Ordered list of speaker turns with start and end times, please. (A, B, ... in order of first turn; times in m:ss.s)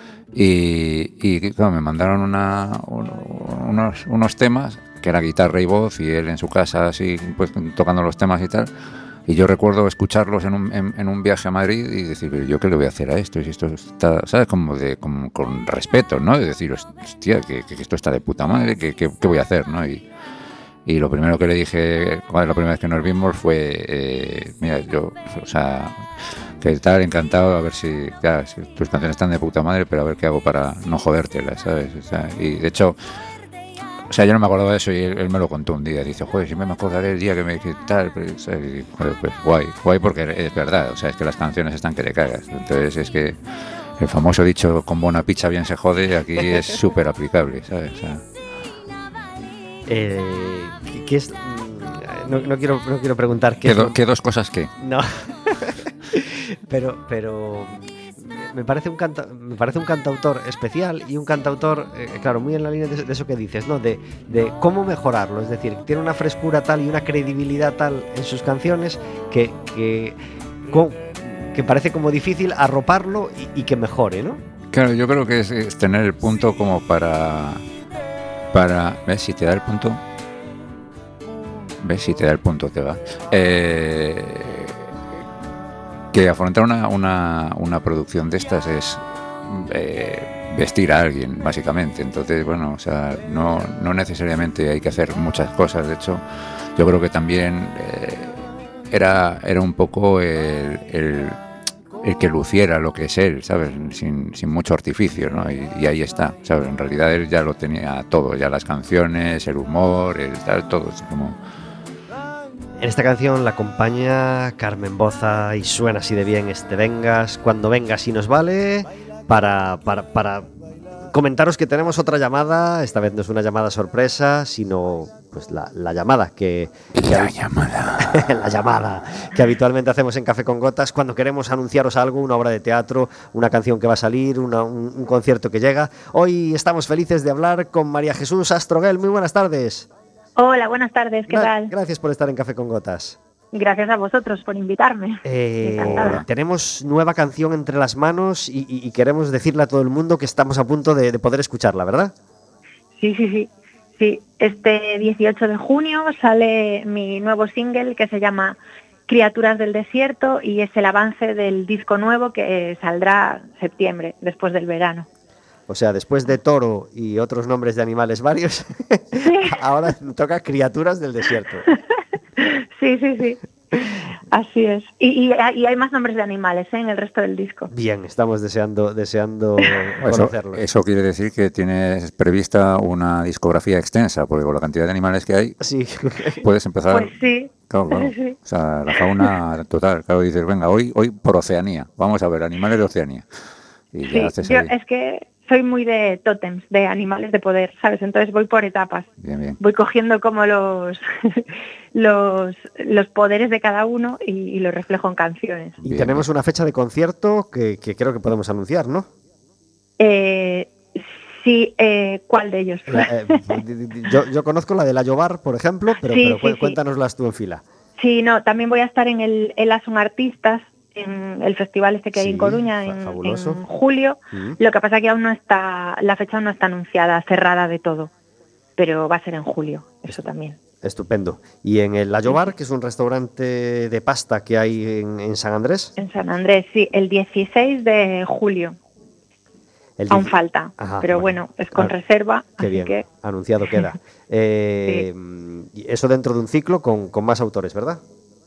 0:00.3-0:08.7 A
0:09.3-0:20.1 A
0:20.9-0:33.0 A
0:34.1-0:43.4 A
0:44.0-0:48.2 A
0:49.9-0:54.0 B
0:53.6-0:54.7 A
0:54.8-1:14.4 B
1:14.7-1:17.6 A
1:18.5-1:20.0 A
1:21.8-1:24.9 A
1:26.1-1:36.2 A
1:36.8-1:41.4 A
1:42.0-1:51.4 A
1:52.8-2:00.6 B
2:01.1-2:07.4 B
2:07.0-2:08.3 A
2:08.0-2:19.9 B
2:20.4-2:21.7 C
2:21.3-2:23.2 B
2:23.5-2:26.2 C
2:25.2-2:32.1 B
2:25.9-2:26.2 A
2:33.0-2:45.1 C
2:45.7-2:51.6 B
2:49.2-2:49.6 C
2:52.4-2:57.7 C
2:57.7-3:00.6 B
3:00.0-3:05.6 A
3:05.6-3:06.4 B
3:06.4-3:13.2 A
3:06.9-3:08.4 C
3:08.9-3:09.3 C
3:13.9-3:14.7 A
3:14.1-3:19.1 C
3:19.2-3:19.6 A
3:19.6-3:25.8 C
3:25.8-3:26.3 A
3:25.8-3:29.1 B
3:30.0-3:30.7 C
3:31.4-3:33.6 C
3:32.9-3:37.6 B
3:36.0-3:36.8 C
3:38.0-3:48.1 C
3:42.1-3:43.6 B
3:44.3-3:44.6 B
3:48.8-3:50.6 C
3:50.8-3:55.9 B
3:56.0-3:58.8 C
4:00.0-4:01.9 B
4:00.1-4:03.0 C
4:02.6-4:08.0 B